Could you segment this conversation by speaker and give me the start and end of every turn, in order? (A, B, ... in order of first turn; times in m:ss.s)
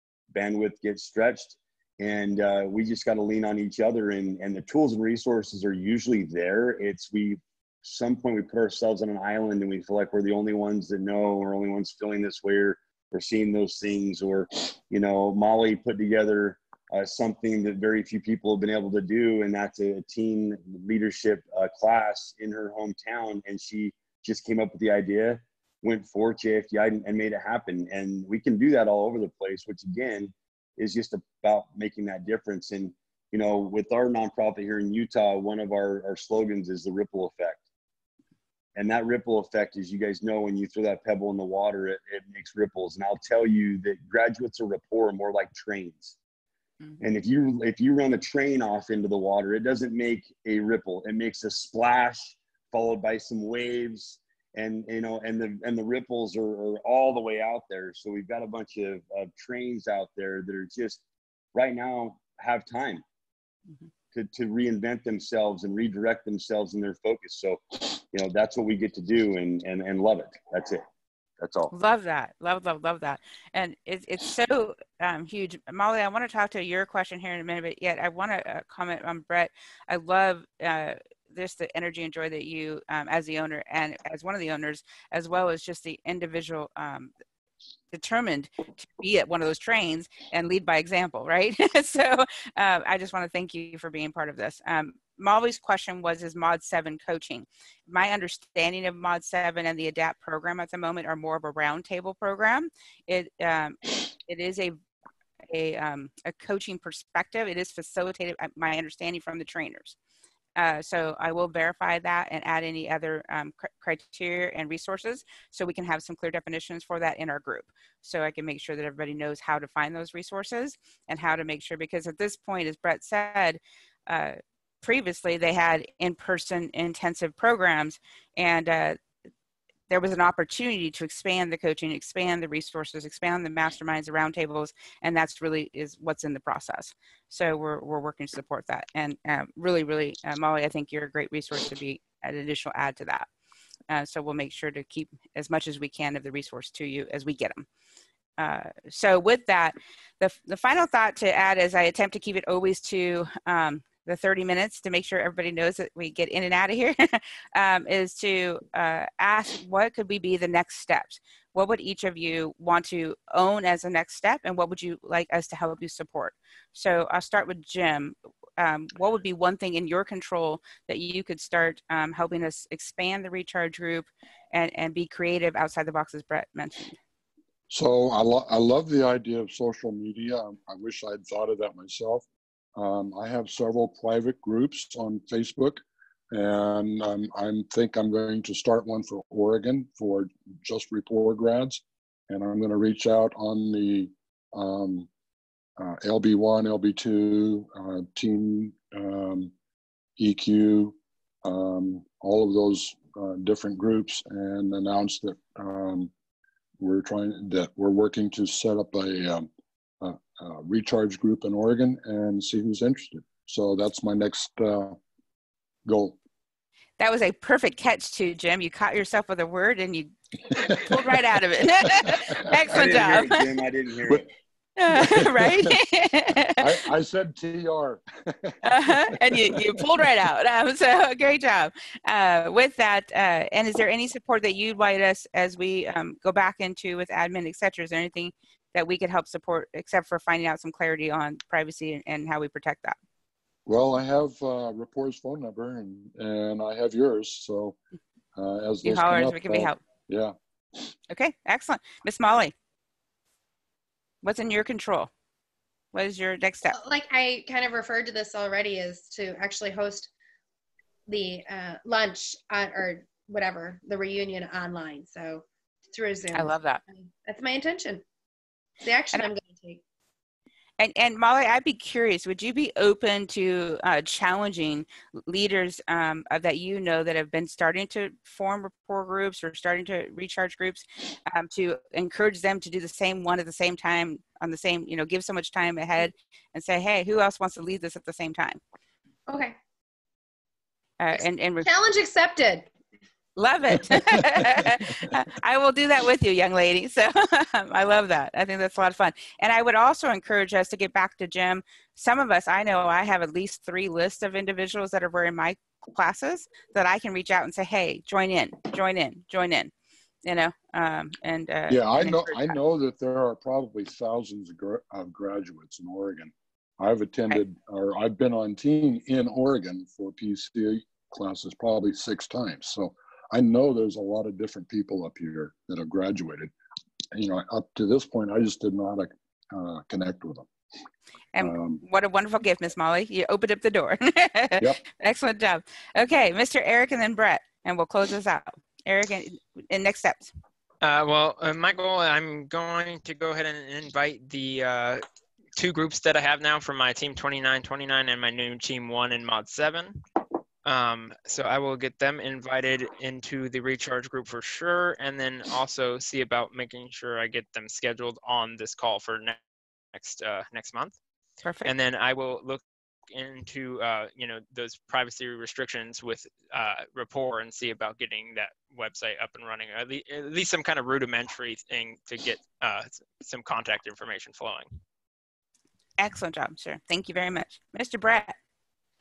0:00.3-0:37.6 A
0:38.7-0:46.2 A
0:47.0-1:01.0 A
1:01.5-1:03.0 A
1:04.1-1:10.8 A
1:11.4-1:11.7 A
1:11.7-1:27.1 B
1:27.9-1:44.8 B
1:45.5-1:50.0 B
1:50.6-2:09.0 B
2:09.9-2:23.3 B
2:23.9-2:27.7 B
2:28.4-2:57.0 B
2:57.7-3:02.2 C
3:02.8-3:15.1 C
3:15.8-3:19.5 C
3:20.2-3:26.1 C
3:26.8-3:29.5 C
3:30.0-3:35.0 C
3:35.8-3:36.2 C
3:37.0-3:43.4 B
3:40.6-3:41.2 C
3:41.8-3:42.4 C
3:42.7-3:44.3 A
3:44.8-3:46.7 B
3:44.9-3:45.8 C
3:46.6-3:49.8 C
3:48.6-4:03.0 B
4:03.6-4:07.8 C
4:08.3-4:10.3 C
4:08.8-4:09.8 B
4:11.1-4:12.5 B
4:14.2-4:15.1 B
4:15.9-4:16.8 B
4:16.7-4:20.1 D
4:21.1-4:28.0 D
4:26.3-4:26.8 B
4:28.8-4:29.8 D
4:30.8-4:48.6 B
4:49.3-4:49.6 D
4:51.0-4:51.7 B
4:51.6-4:52.7 D
4:53.4-5:09.7 B
5:10.2-5:12.6 B
5:11.7-5:26.5 C
5:27.1-5:30.5 C
5:31.3-5:40.3 B
5:31.4-5:31.8 C
5:40.8-5:45.0 E
5:45.6-5:50.0 E
5:50.6-5:59.4 E
5:59.9-6:01.0 E
6:01.4-6:01.7 B
6:01.6-6:14.7 E
6:16.0-6:18.3 B